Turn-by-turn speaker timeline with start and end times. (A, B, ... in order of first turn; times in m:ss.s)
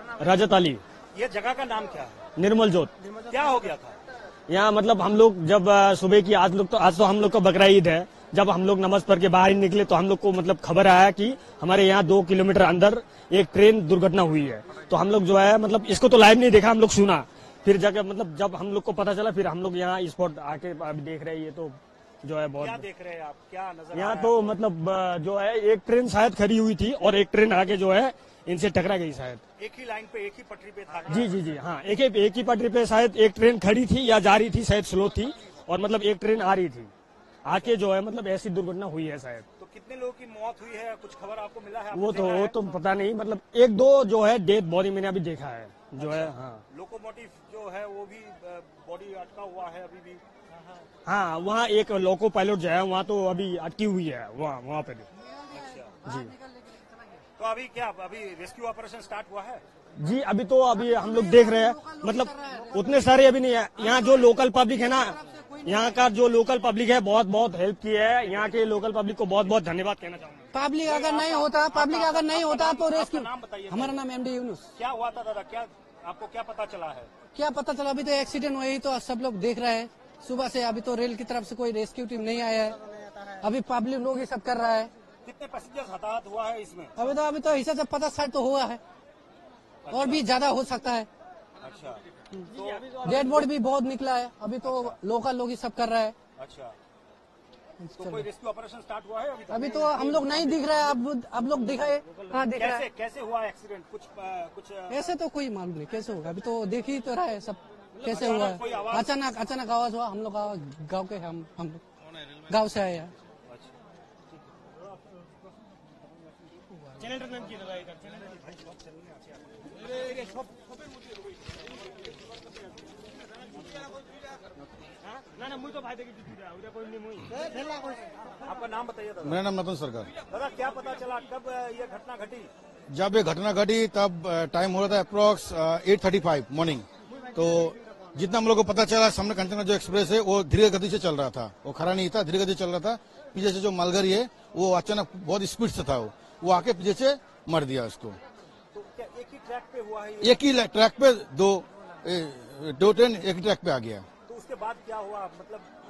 0:00.2-0:00.8 A
0:01.1-0:02.1 B
0:02.4-0:02.9 A
0:03.3-0:03.9 B
0:04.5-0:22.8 A
0:22.6-0:24.6 B
0:23.9-0:29.4 A
0:29.6-0:31.3 B
0:31.1-0:36.9 A
0:37.4-0:39.4 A
0:37.5-0:37.8 B
0:39.6-0:42.7 B
0:41.9-0:46.6 A
0:46.0-0:50.2 B
0:51.0-0:55.1 A
0:55.3-0:56.8 C
0:55.5-0:56.0 B
0:56.0-0:56.3 A
0:57.4-0:59.6 B
1:00.0-1:10.5 A
1:01.0-1:02.9 C
1:10.5-1:14.7 C
1:10.8-1:14.0 B
1:14.7-1:17.1 B
1:17.3-1:22.8 C
1:23.3-1:24.9 C
1:25.2-1:27.1 B
1:27.0-1:28.8 C
1:29.9-1:30.2 B
1:29.9-1:31.1 C
1:31.6-1:32.0 B
1:32.5-1:33.4 A
1:32.5-1:32.9 B
1:33.0-1:36.1 C
1:34.6-1:35.0 B
1:36.4-1:36.7 B
1:37.8-1:38.2 C
1:38.0-1:40.6 B
1:39.5-1:42.8 C
1:42.5-1:45.1 B
1:44.9-1:51.8 C
1:48.0-1:48.7 A
1:48.0-1:49.1 B
1:52.5-1:53.1 C
1:53.5-1:53.7 B
1:57.0-1:58.4 A
1:58.5-1:59.1 B
2:05.0-2:07.5 A
2:08.4-2:09.4 B
2:09.2-2:10.1 D
2:10.3-2:12.5 B
2:12.9-2:28.2 D
2:28.7-2:30.4 B
2:30.2-2:34.0 D
2:34.2-2:35.7 B